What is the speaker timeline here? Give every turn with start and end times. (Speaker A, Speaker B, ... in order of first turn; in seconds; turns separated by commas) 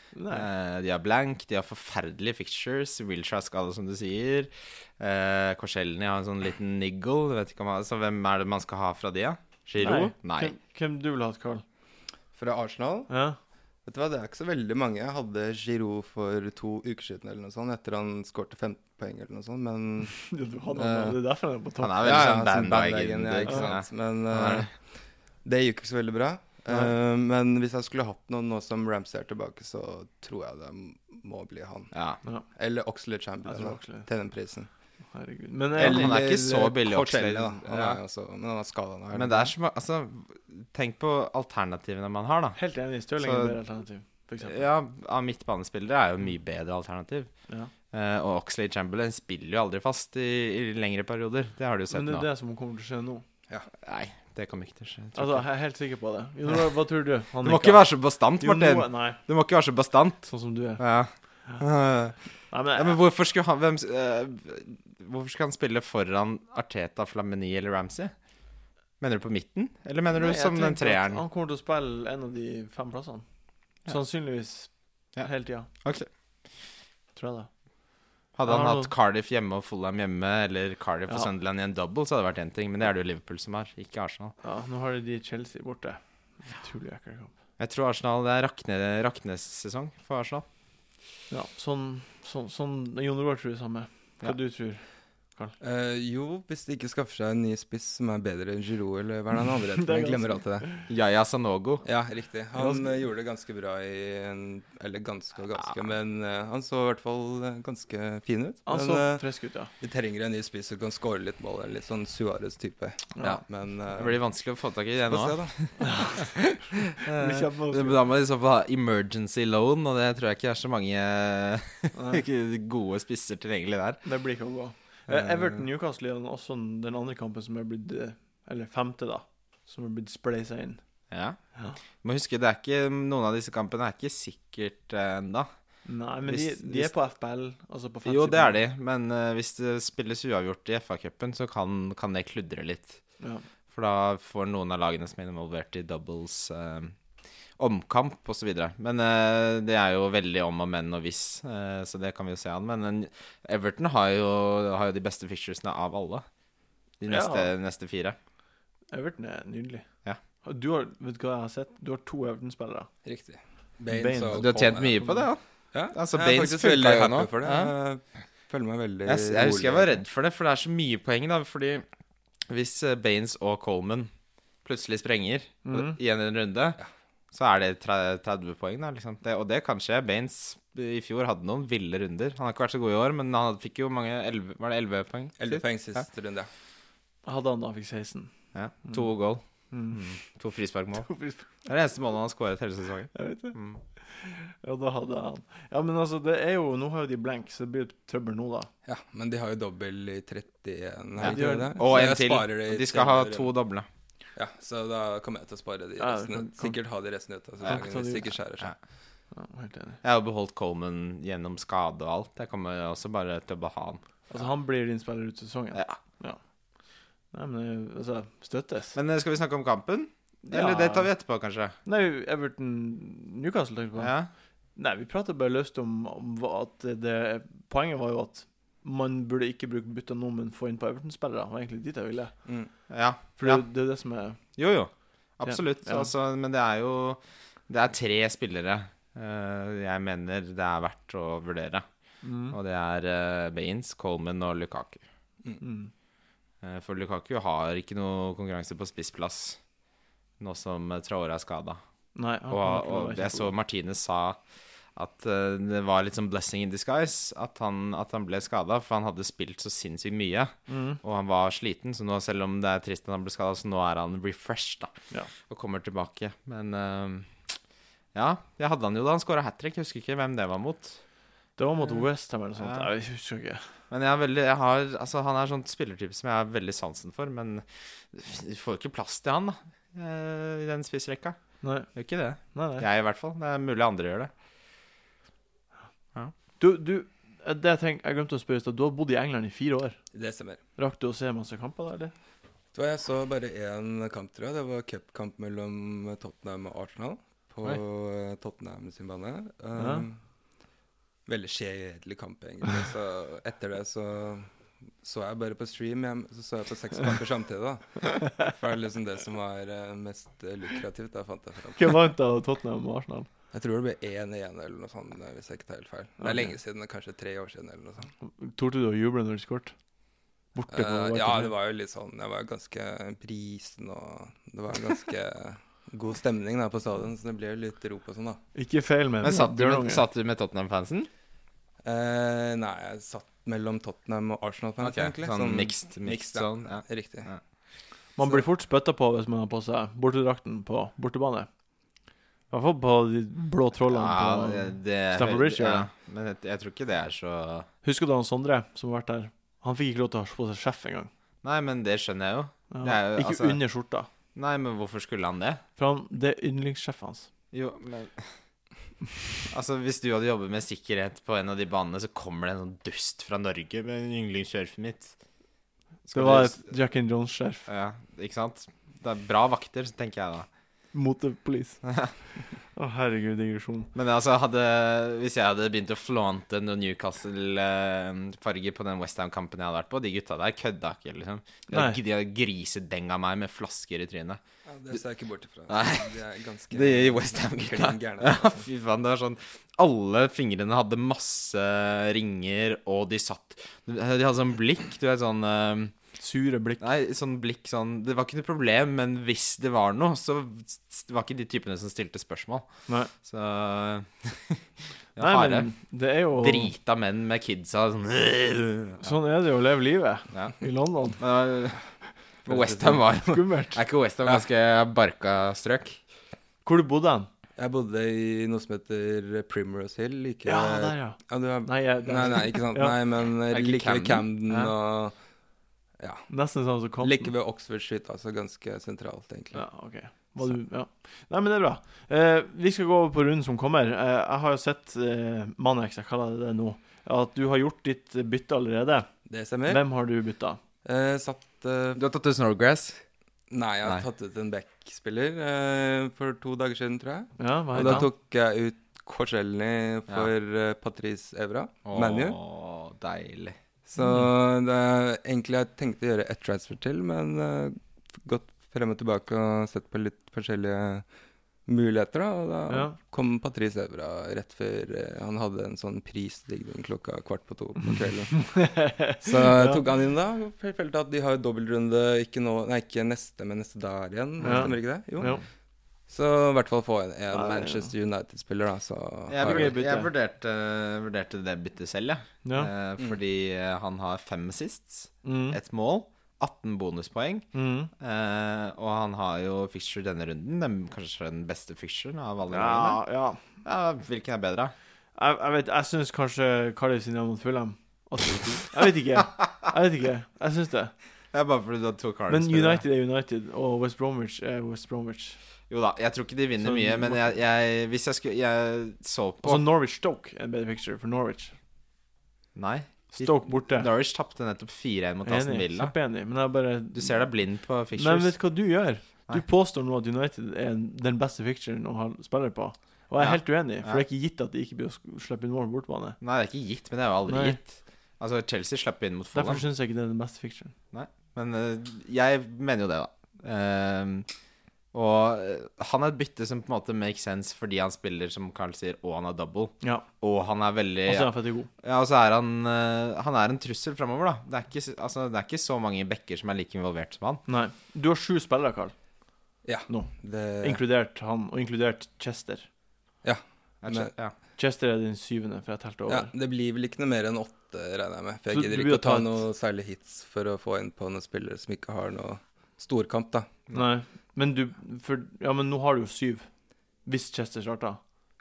Speaker A: 0.1-0.5, Speaker B: 0.3-10.5, Speaker A: 9.8-11.6, Speaker C: 12.3-13.1, Speaker A: 13.1-13.4, Speaker C: 13.8-20.2, Speaker A: 20.1-22.2, Speaker B: 20.8-21.2, Speaker B: 21.8-24.7, Speaker C: 22.0-24.9, Speaker C: 25.4-31.9, Speaker B: 31.9-32.2, Speaker C: 32.5-34.7, Speaker A: 33.5-34.1, Speaker A: 35.1-36.2, Speaker C: 35.8-39.5, Speaker B: 35.8-38.0, Speaker B: 39.1-42.6, Speaker A: 42.6-44.7, Speaker B: 43.2-43.6, Speaker B: 44.4-47.3, Speaker B: 47.9-52.3, Speaker A: 51.9-53.2, Speaker B: 53.8-55.5, Speaker A: 55.1-57.9, Speaker B: 57.4-60.3, Speaker A: 58.4-59.2, Speaker A: 60.3-60.8, Speaker B: 60.8-62.1, Speaker A: 62.5-63.0, Speaker B: 62.7-68.1, Speaker B: 69.0-71.2, Speaker A: 70.1-73.2, Speaker A: 73.9-75.7, Speaker B: 75.8-76.1, Speaker A: 77.2-77.5, Speaker B: 78.4-84.3, Speaker A: 78.5-78.9, Speaker A: 84.4-87.3, Speaker B: 87.6-90.5, Speaker A: 91.3-94.8, Speaker C: 95.6-100.7, Speaker A: 99.7-100.9, Speaker B: 100.7-101.9, Speaker C: 101.8-109.2, Speaker A: 102.5-103.0, Speaker A: 108.7-109.7, Speaker C: 109.8-114.2, Speaker B: 113.2-124.0, Speaker C: 115.0-115.8, Speaker A: 115.8-116.4, Speaker A: 117.0-118.0, Speaker A: 121.9-122.2, Speaker A: 124.0-130.8, Speaker B: 125.1-125.6, Speaker B: 131.1-131.4, Speaker B: 132.0-135.5, Speaker A: 135.8-138.6, Speaker B: 136.3-136.9, Speaker B: 138.1-143.0, Speaker B: 143.7-146.9, Speaker B: 147.6-156.2, Speaker B: 157.0-158.2, Speaker A: 157.1-157.5, Speaker A: 158.9-159.8, Speaker A: 160.4-162.9, Speaker C: 163.1-165.1, Speaker A: 163.9-165.3, Speaker B: 164.3-165.4, Speaker C: 165.7-170.0, Speaker B: 165.9-167.7, Speaker B: 169.1-171.8, Speaker B: 172.5-174.1, Speaker B: 174.7-176.8, Speaker A: 175.7-176.0, Speaker B: 177.3-186.0, Speaker C: 185.4-186.5, Speaker A: 187.2-188.3, Speaker B: 188.5-191.1, Speaker A: 189.7-190.0, Speaker A: 191.0-191.5, Speaker B: 191.7-193.8, Speaker A: 193.1-198.7, Speaker C: 198.8-203.5, Speaker A: 201.2-202.1, Speaker B: 201.2-203.9, Speaker C: 204.4-208.7, Speaker A: 206.0-206.8, Speaker A: 207.7-208.3, Speaker A: 209.3-210.0, Speaker B: 210.0-214.0, Speaker A: 214.3-216.4, Speaker A: 217.3-219.0, Speaker B: 218.9-221.8, Speaker A: 220.4-221.1, Speaker A: 221.8-224.1, Speaker B: 224.0-224.3, Speaker A: 224.8-232.3, Speaker C: 232.4-232.7, Speaker B: 232.9-233.7, Speaker A: 233.4-234.4, Speaker B: 234.6-241.9, Speaker A: 235.4-236.1, Speaker A: 242.2-242.6, Speaker B: 242.5-245.0, Speaker A: 245.6-245.9, Speaker B: 246.6-249.6, Speaker B: 250.4-251.8, Speaker A: 252.2-253.5, Speaker B: 252.5-254.4, Speaker B: 255.0-264.9, Speaker A: 260.7-261.0, Speaker B: 265.5-267.3, Speaker B: 268.1-271.0, Speaker A: 271.6-273.6, Speaker B: 272.6-272.9, Speaker B: 273.9-281.4, Speaker A: 281.6-281.9, Speaker B: 281.9-284.3, Speaker A: 282.5-282.9, Speaker A: 286.6-290.0, Speaker C: 290.1-290.6, Speaker A: 290.8-292.1, Speaker C: 292.7-300.2, Speaker A: 299.8-300.1, Speaker C: 301.3-304.5, Speaker C: 305.0-312.0, Speaker A: 311.8-313.3, Speaker C: 313.5-318.1, Speaker A: 316.2-316.5, Speaker A: 318.2-319.7, Speaker A: 320.5-321.5, Speaker C: 320.7-328.4, Speaker A: 328.6-330.0, Speaker B: 329.2-331.1, Speaker C: 331.8-337.3, Speaker B: 334.8-337.4, Speaker A: 338.2-341.5, Speaker A: 342.5-345.9, Speaker B: 343.9-347.7, Speaker A: 347.8-351.1, Speaker B: 351.4-353.6, Speaker A: 352.7-354.1, Speaker B: 354.4-355.6, Speaker A: 355.8-357.3, Speaker B: 357.5-358.3, Speaker B: 359.5-365.1, Speaker B: 366.1-366.7, Speaker A: 366.1-367.7, Speaker B: 367.7-370.5, Speaker A: 370.9-371.8, Speaker B: 371.8-372.1, Speaker A: 372.8-373.9, Speaker B: 373.9-384.4, Speaker A: 381.7-382.0, Speaker C: 384.7-388.6, Speaker B: 385.7-386.1, Speaker B: 386.7-395.9, Speaker A: 396.2-396.9, Speaker B: 396.8-402.7, Speaker B: 403.2-404.6, Speaker B: 405.2-405.7, Speaker A: 405.2-406.7, Speaker B: 406.4-409.1, Speaker A: 409.0-411.2, Speaker B: 411.2-411.8, Speaker B: 412.4-416.0, Speaker C: 412.5-413.0, Speaker A: 413.1-413.8, Speaker A: 416.6-417.3, Speaker C: 417.6-425.1, Speaker A: 420.4-423.0, Speaker B: 423.5-424.7, Speaker C: 426.0-426.3, Speaker A: 426.3-427.3, Speaker C: 427.0-429.6, Speaker A: 429.5-439.1, Speaker C: 439.3-439.8, Speaker A: 439.7-440.6, Speaker C: 440.8-442.0, Speaker B: 442.0-443.0, Speaker C: 443.5-452.4, Speaker A: 447.4-448.1, Speaker B: 451.9-453.6, Speaker C: 453.9-461.1, Speaker A: 454.0-454.3, Speaker C: 461.7-475.4, Speaker A: 462.7-463.0, Speaker A: 468.3-469.8, Speaker A: 474.4-475.4, Speaker C: 476.1-479.8, Speaker A: 477.3-477.9, Speaker B: 479.3-487.5, Speaker A: 479.4-480.1, Speaker A: 482.4-482.7, Speaker A: 485.2-485.6, Speaker A: 487.5-487.9, Speaker B: 488.0-493.0, Speaker A: 492.5-493.4, Speaker B: 493.6-494.7, Speaker A: 495.2-500.9, Speaker B: 499.2-499.5, Speaker B: 501.3-502.8, Speaker A: 502.3-505.4, Speaker B: 505.7-509.6, Speaker A: 506.6-507.3, Speaker A: 509.4-511.5, Speaker B: 512.5-515.9, Speaker A: 513.1-513.9, Speaker A: 515.2-517.2, Speaker B: 516.9-518.4, Speaker A: 518.0-526.2, Speaker B: 523.2-524.0, Speaker B: 526.2-529.6, Speaker A: 527.3-527.6, Speaker A: 529.3-530.7, Speaker B: 530.9-534.3, Speaker B: 534.9-547.4, Speaker A: 541.1-541.7, Speaker A: 547.5-548.9, Speaker C: 549.6-550.8, Speaker A: 549.9-552.7, Speaker C: 553.2-554.1, Speaker B: 553.8-554.3, Speaker A: 554.6-556.3, Speaker C: 556.1-563.5, Speaker A: 558.5-559.4, Speaker A: 563.7-566.5, Speaker A: 567.0-568.0